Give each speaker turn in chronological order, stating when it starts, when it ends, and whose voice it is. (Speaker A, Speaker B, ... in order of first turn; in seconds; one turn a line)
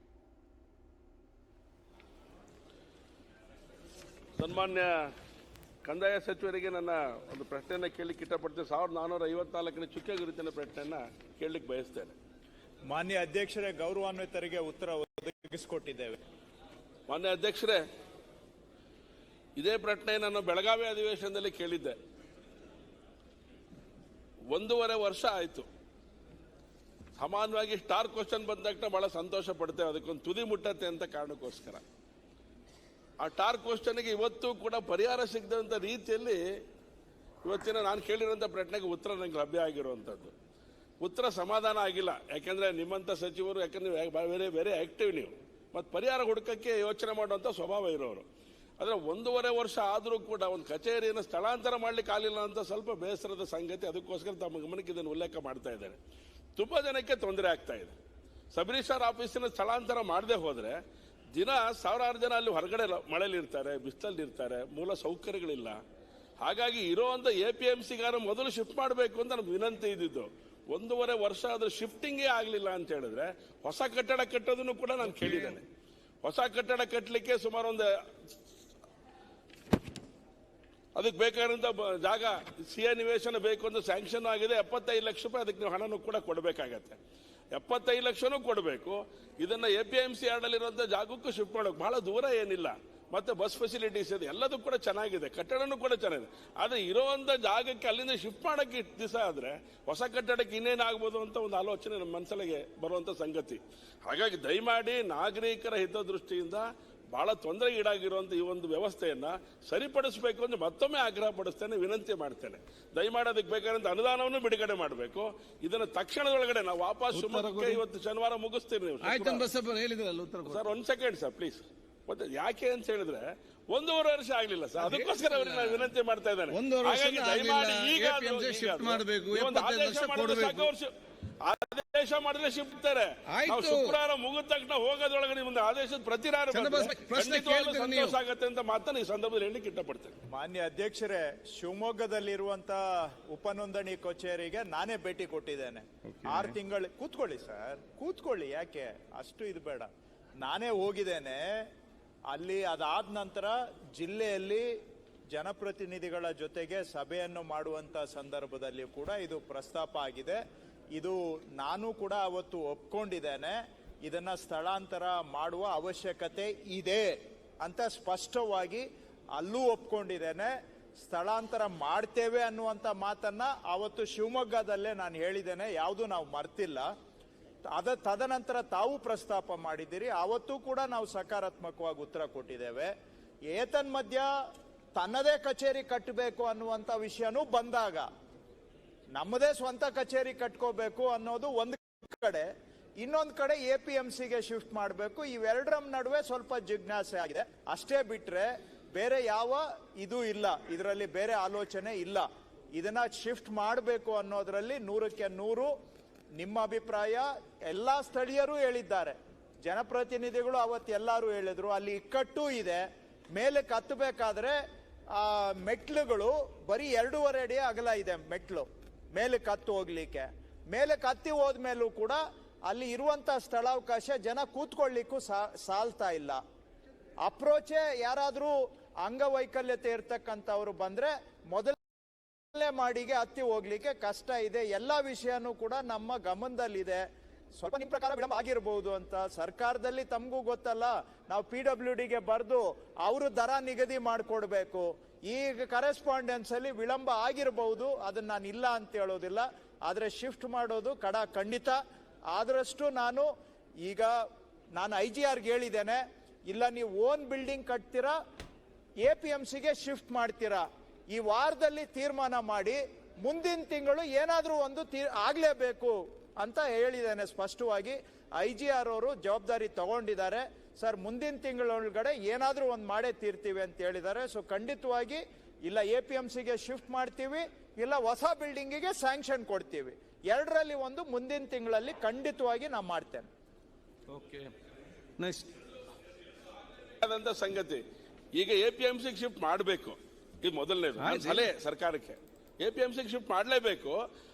Speaker A: 4.4-4.9
Speaker A: 5.8-12.2
Speaker B: 12.9-16.2
Speaker A: 17.1-17.8
Speaker A: 19.6-22.0
Speaker A: 24.5-25.7
Speaker A: 27.2-31.8
Speaker A: 33.2-36.4
Speaker A: 37.4-40.3
Speaker A: 41.0-48.3
Speaker A: 48.8-56.0
Speaker A: 56.6-57.9
Speaker A: 58.5-60.8
Speaker A: 61.3-65.8
Speaker A: 66.4-75.6
Speaker A: 76.2-77.9
Speaker A: 81.0-87.0
Speaker A: 87.5-119.5
Speaker C: 117.1-117.8
Speaker C: 119.0-120.7
Speaker A: 120.5-130.9
Speaker C: 124.8-125.9
Speaker C: 126.5-130.7
Speaker A: 131.4-140.2
Speaker C: 133.3-134.0
Speaker C: 136.5-138.2
Speaker B: 140.3-142.8
Speaker B: 143.3-149.9
Speaker C: 146.1-146.5
Speaker B: 150.4-151.6
Speaker B: 152.3-154.7
Speaker B: 155.3-160.4
Speaker B: 160.9-168.8
Speaker B: 169.3-176.9
Speaker B: 177.7-182.9
Speaker B: 183.5-184.3
Speaker B: 185.0-188.1
Speaker B: 189.2-192.5
Speaker B: 193.0-205.7
Speaker B: 206.4-212.8
Speaker B: 213.3-214.6
Speaker B: 215.1-226.4
Speaker B: 227.2-231.8
Speaker B: 232.5-237.0
Speaker B: 237.6-251.8
Speaker B: 252.3-253.3
Speaker B: 253.8-254.1
Speaker B: 254.8-258.1
Speaker B: 259.0-283.3
Speaker C: 284.1-284.5
Speaker C: 285.2-285.5
Speaker A: 287.0-287.8
Speaker A: 288.4-294.0
Speaker C: 291.0-291.5